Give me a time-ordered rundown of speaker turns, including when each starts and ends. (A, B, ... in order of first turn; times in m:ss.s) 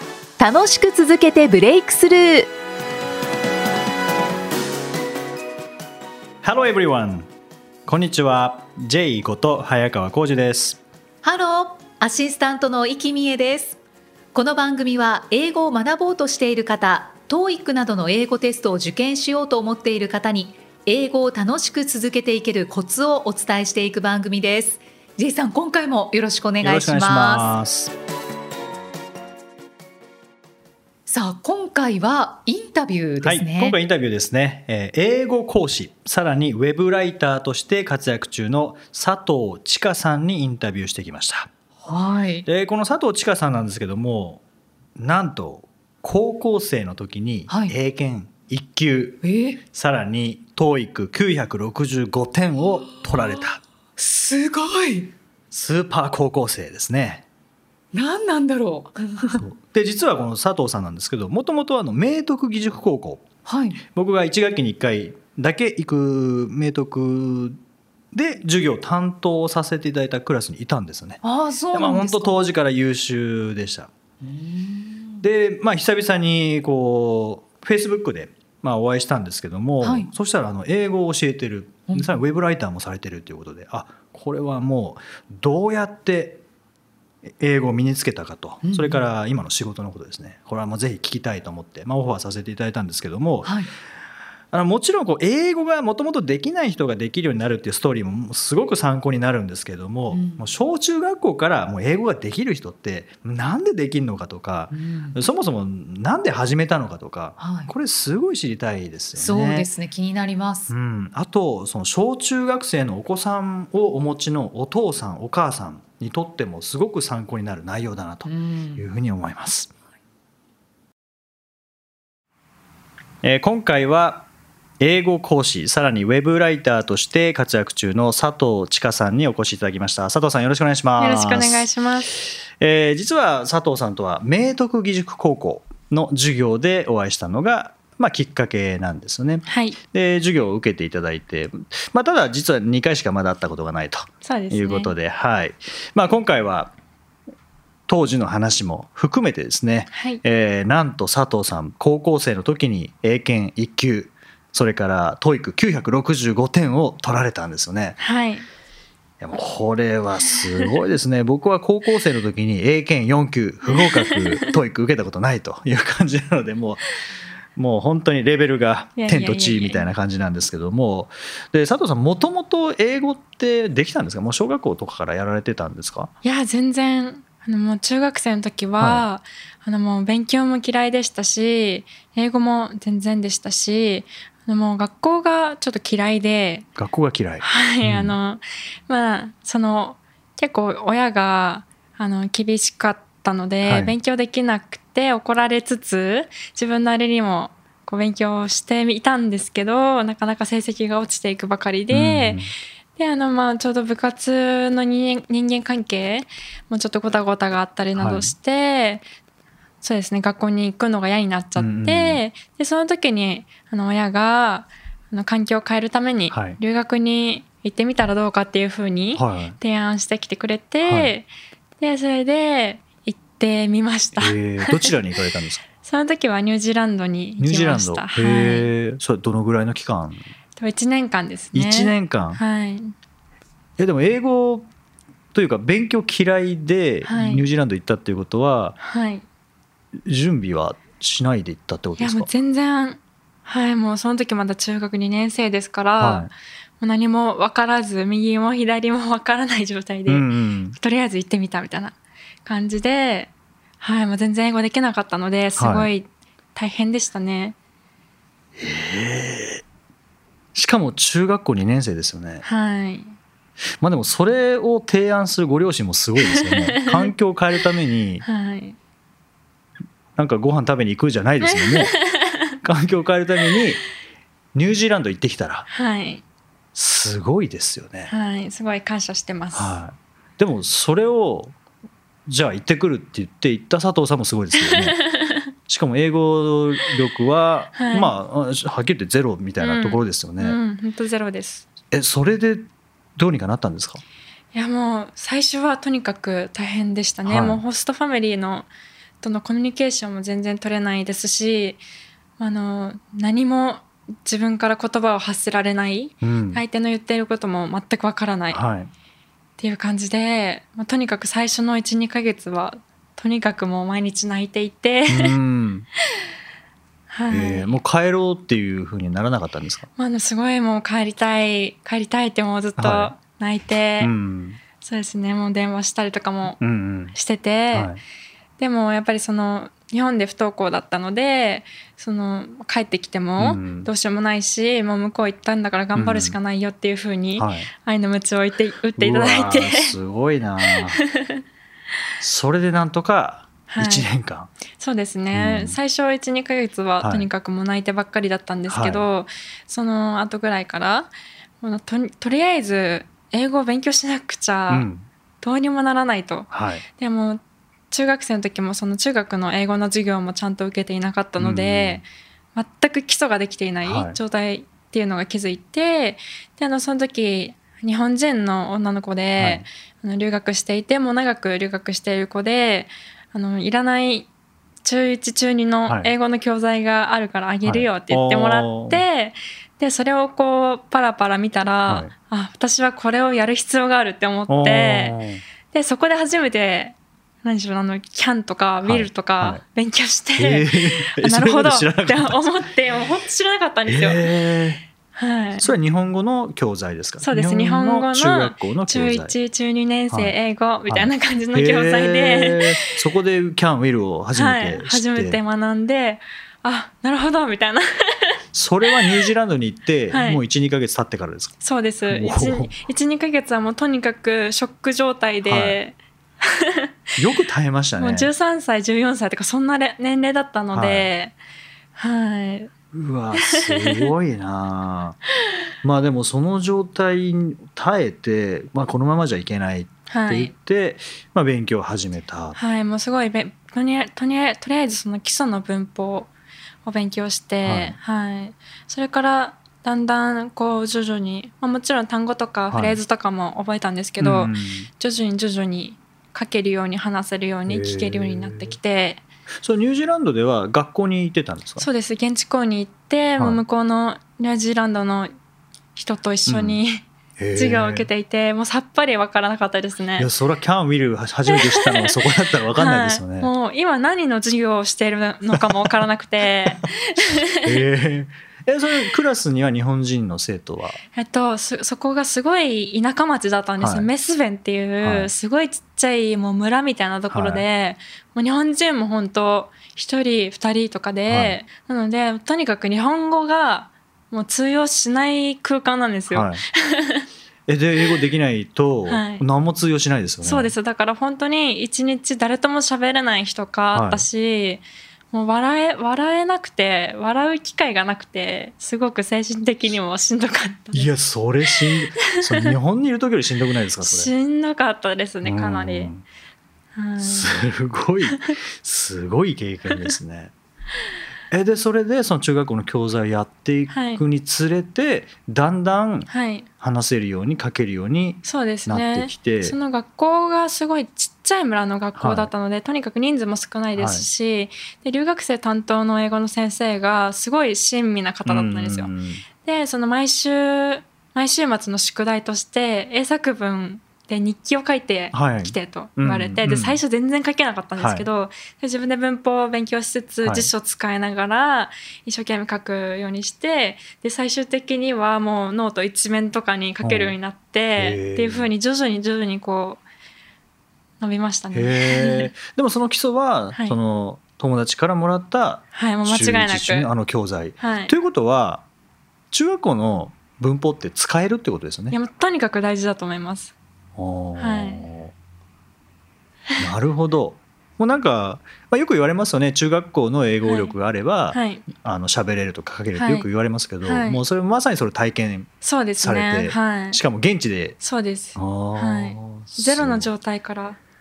0:00.4-0:02.5 A
0:06.4-0:07.3 B
0:07.9-0:10.8 B
0:11.2-0:13.8 A
0:14.3-0:27.5 A
0:26.6-0:27.9 B
0:31.1-0:33.8 A
0:33.2-0:41.5 B
0:41.8-0:42.5 A
0:42.4-0:44.4 B
0:45.0-0:53.6 B
0:47.5-0:47.7 A
0:49.2-0:49.6 A
0:52.7-0:53.5 A
0:54.0-0:55.1 A
0:55.5-0:57.2 B
0:57.9-0:59.4 A
0:59.3-1:03.3 B
1:03.5-1:03.8 A
1:03.9-1:07.6 B
1:08.1-1:11.2 B
1:11.2-1:12.4 A
1:11.7-1:13.9 B
1:14.2-1:15.2 A
1:15.2-1:26.4 B
1:19.8-1:20.1 A
1:21.9-1:22.2 A
1:27.2-1:33.6 B
1:28.6-1:29.0 A
1:33.4-1:33.7 A
1:34.5-1:49.7 B
1:40.1-1:40.5 A
1:44.7-1:45.2 A
1:47.4-1:47.7 A
1:49.2-1:50.7 A
1:50.7-1:59.7 B
1:58.3-1:58.8 A
2:03.2-2:04.3 B
2:04.8-2:26.7 B
2:11.0-2:12.1 C
2:19.5-2:19.8 C
2:24.2-2:24.9 C
2:27.9-2:38.0 B
2:29.9-2:30.2 C
2:38.0-2:38.5 C
2:39.2-2:46.8 B
2:43.7-2:44.5 C
2:47.6-2:56.1 B
2:49.0-2:49.8 C
2:56.2-3:06.7 C
2:58.8-2:59.1 B
3:06.8-3:08.2 B
3:07.4-3:22.4 C
3:13.6-3:14.0 B
3:21.9-3:22.5 B
3:23.0-3:29.0 C
3:28.0-3:28.3 B
3:29.8-3:41.3 C
3:31.6-3:32.2 B
3:36.3-3:36.6 B
3:39.2-3:39.6 B
3:40.8-3:41.1 B
3:41.8-3:44.9 C
3:44.2-3:45.6 B
3:45.8-3:48.7 C
3:47.4-3:50.3 B
3:50.6-3:52.9 C
3:51.5-3:52.4 B
3:53.8-3:54.7 B
3:55.3-3:58.8 B
3:57.0-3:57.4 C
3:58.8-3:59.2 C
4:00.0-4:02.3 B
4:02.0-4:17.6 C
4:06.0-4:06.3 B
4:10.1-4:10.8 B
4:15.6-4:15.9 B
4:18.6-4:19.6 B
4:20.5-4:22.4 B
4:22.4-4:23.2 C
4:23.8-4:28.2 B
4:26.3-4:27.1 C
4:28.2-4:28.8 C
4:30.2-4:31.9 B
4:31.4-4:32.5 C
4:32.6-4:33.8 B
4:34.5-4:35.7 B
4:35.7-4:36.2 C
4:36.8-4:38.1 B
4:38.1-4:39.8 C
4:39.5-4:41.6 B
4:42.3-4:45.0 B
4:44.5-4:45.4 C
4:45.7-4:50.6 B
4:47.8-4:48.1 C
4:49.6-4:51.7 C
4:51.9-4:54.0 B
4:54.5-4:58.7 C
4:57.2-4:57.6 B
4:59.2-5:01.8 C
5:02.4-5:08.6 C
5:06.2-5:06.6 B
5:08.5-5:08.9 B
5:09.6-5:15.4 C
5:15.1-5:15.9 B
5:17.1-5:17.8 C
5:17.3-5:19.9 B
5:20.0-5:24.1 C
5:22.8-5:23.1 B
5:24.0-5:24.6 B
5:24.8-5:26.6 C
5:26.6-5:27.2 B
5:27.1-5:27.9 C
5:27.7-5:28.0 B
5:28.6-5:40.0 C
5:33.4-5:33.9 B
5:36.0-5:36.4 B
5:37.4-5:37.7 B
5:39.0-5:41.0 B
5:42.2-5:44.5 B
5:43.7-5:44.1 C
5:44.7-5:54.9 C
5:45.3-5:45.8 B
5:47.0-5:47.3 B
5:48.7-5:49.1 B
5:54.7-5:55.1 B
5:55.4-6:14.3 C
5:56.5-5:56.9 B
6:01.4-6:02.0 B
6:03.8-6:04.2 B
6:09.4-6:09.7 B
6:14.8-6:25.2 C
6:15.9-6:16.1 B
6:17.6-6:19.0 B
6:21.8-6:22.1 B
6:24.5-6:25.4 B
6:25.7-6:34.3 C
6:28.8-6:29.6 B
6:30.4-6:32.6 B
6:33.9-6:34.8 B
6:35.1-6:35.7 C
6:35.6-6:39.4 B
6:37.2-6:42.9 C
6:40.9-6:45.4 B
6:44.4-6:48.4 C
6:48.5-6:52.8 B
6:48.9-6:49.2 C
6:50.1-6:50.4 C
6:51.6-6:56.8 C
6:55.4-6:55.8 B
6:57.2-6:58.3 B
6:58.0-7:01.4 C
7:00.7-7:01.1 B
7:02.0-7:02.7 C
7:02.9-7:05.2 B
7:03.4-7:04.1 C
7:05.8-7:12.6 B
7:10.1-7:10.5 C
7:12.6-7:16.3 C
7:16.8-7:29.2 C
7:17.6-7:18.0 B
7:22.7-7:23.0 B
7:24.2-7:24.9 B
7:27.7-7:28.8 B
7:29.6-7:31.9 B
7:31.8-7:35.3 C
7:36.0-7:40.3 C
7:36.5-7:36.8 B
7:37.4-7:38.1 B
7:40.2-7:43.5 B
7:41.5-7:42.1 C
7:42.8-7:47.8 C
7:45.5-7:46.0 B
7:47.6-7:51.0 B
7:51.2-8:07.3 C
7:53.8-7:54.1 B
7:55.0-7:55.3 B
7:57.3-7:57.6 B
8:01.3-8:01.6 B
8:06.3-8:06.6 B
8:07.7-8:10.7 B
8:09.1-8:09.4 C
8:10.4-8:21.1 C
8:13.9-8:14.3 B
8:20.9-8:24.3 B
8:21.9-8:22.8 C
8:24.0-8:26.1 C
8:25.4-8:26.2 B
8:27.0-8:27.6 C
8:27.2-8:30.5 B
8:31.5-8:39.8 B
8:33.9-8:34.2 C
8:36.3-8:36.7 C
8:38.4-9:10.0 C
8:42.2-8:42.5 B
8:44.0-8:44.3 B
8:48.5-8:49.4 B
8:55.3-8:57.0 B
8:58.0-8:58.3 B
9:00.4-9:00.7 B
9:07.0-9:07.4 B
9:08.0-9:08.7 B
9:11.2-9:12.5 C
9:11.7-9:18.8 B
9:15.9-9:17.1 C
9:17.8-9:18.1 C
9:19.5-9:22.2 B
9:22.1-9:23.7 C
9:24.2-9:25.3 B
9:24.6-9:25.1 C
9:26.8-9:38.0 B
9:30.6-9:30.9 C
9:31.5-9:31.9 C
9:33.2-9:33.5 C
9:34.0-9:34.4 C
9:35.8-9:37.2 C
9:38.0-9:41.0 C
9:38.6-9:40.3 B